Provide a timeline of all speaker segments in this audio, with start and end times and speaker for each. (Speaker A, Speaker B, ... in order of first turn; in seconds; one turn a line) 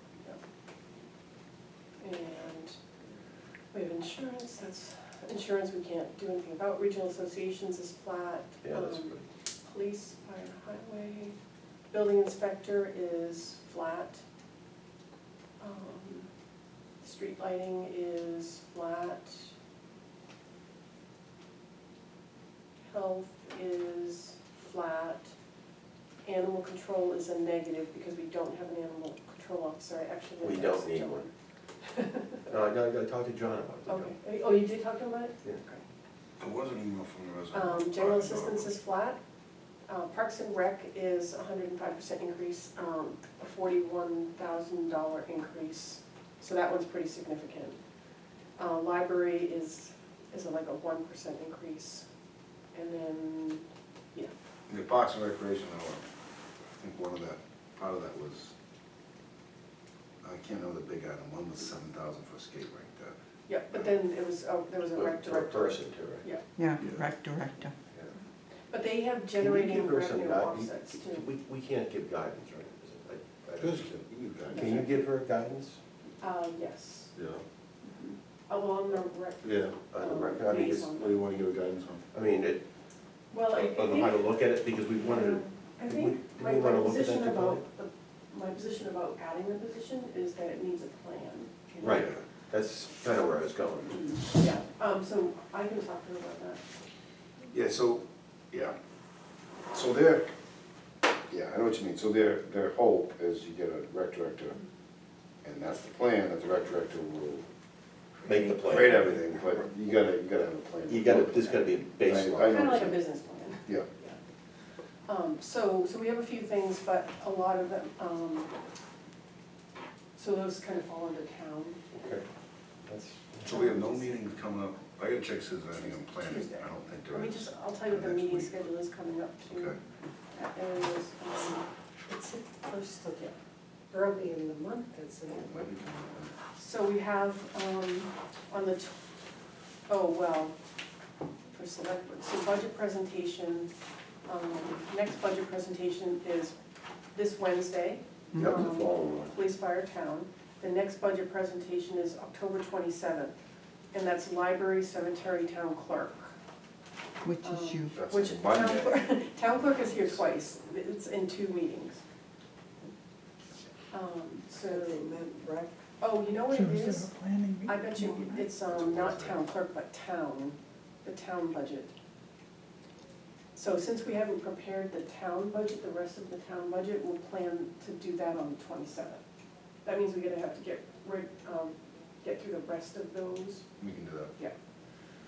Speaker A: 2.0-2.8
Speaker A: 3.7-11.3
Speaker B: 8.6-9.3
Speaker A: 11.9-14.2
Speaker A: 15.6-16.3
Speaker A: 17.0-19.5
Speaker A: 22.9-25.3
Speaker A: 26.2-31.3
Speaker B: 30.4-31.3
Speaker A: 31.8-32.4
Speaker B: 32.5-34.1
Speaker A: 33.9-35.8
Speaker C: 36.4-38.8
Speaker A: 37.5-39.2
Speaker A: 39.9-47.8
Speaker A: 48.6-52.1
Speaker A: 52.7-54.3
Speaker C: 54.7-56.1
Speaker C: 56.8-58.5
Speaker C: 60.2-63.1
Speaker A: 63.5-66.4
Speaker B: 64.9-66.2
Speaker D: 66.6-67.7
Speaker C: 66.8-67.1
Speaker A: 68.7-71.3
Speaker B: 69.4-73.9
Speaker C: 73.5-74.7
Speaker A: 74.5-75.0
Speaker B: 74.5-75.8
Speaker A: 76.2-77.1
Speaker B: 77.2-77.4
Speaker A: 77.8-81.2
Speaker C: 79.4-79.8
Speaker B: 79.7-81.0
Speaker C: 81.0-82.1
Speaker B: 82.1-82.6
Speaker A: 83.3-84.4
Speaker B: 83.5-87.6
Speaker A: 85.0-92.0
Speaker B: 91.8-94.2
Speaker C: 91.8-92.2
Speaker A: 93.9-96.6
Speaker C: 97.5-98.8
Speaker C: 99.7-100.3
Speaker C: 101.3-104.6
Speaker C: 105.4-107.5
Speaker B: 108.2-109.0
Speaker C: 108.6-113.0
Speaker B: 110.9-112.9
Speaker A: 112.4-114.2
Speaker A: 115.1-118.5
Speaker A: 120.2-121.8
Speaker B: 121.9-122.2
Speaker B: 122.9-123.4
Speaker C: 123.4-128.6
Speaker A: 123.5-124.0
Speaker A: 125.7-129.8
Speaker C: 129.5-129.8
Speaker A: 130.3-131.7
Speaker E: 132.1-133.3
Speaker E: 133.9-135.4
Speaker C: 135.3-136.3
Speaker A: 136.6-138.9
Speaker A: 139.9-140.6
Speaker A: 141.5-143.7
Speaker A: 144.3-146.5
Speaker A: 147.1-153.3
Speaker B: 148.3-149.3
Speaker A: 153.9-156.3
Speaker D: 157.2-158.0
Speaker A: 157.4-162.0
Speaker C: 157.9-160.1
Speaker A: 163.9-165.2
Speaker E: 164.5-165.8
Speaker A: 166.0-167.1
Speaker D: 166.5-168.5
Speaker A: 167.7-171.9
Speaker C: 168.7-169.4
Speaker A: 173.6-179.2
Speaker A: 179.8-183.7
Speaker C: 183.8-184.3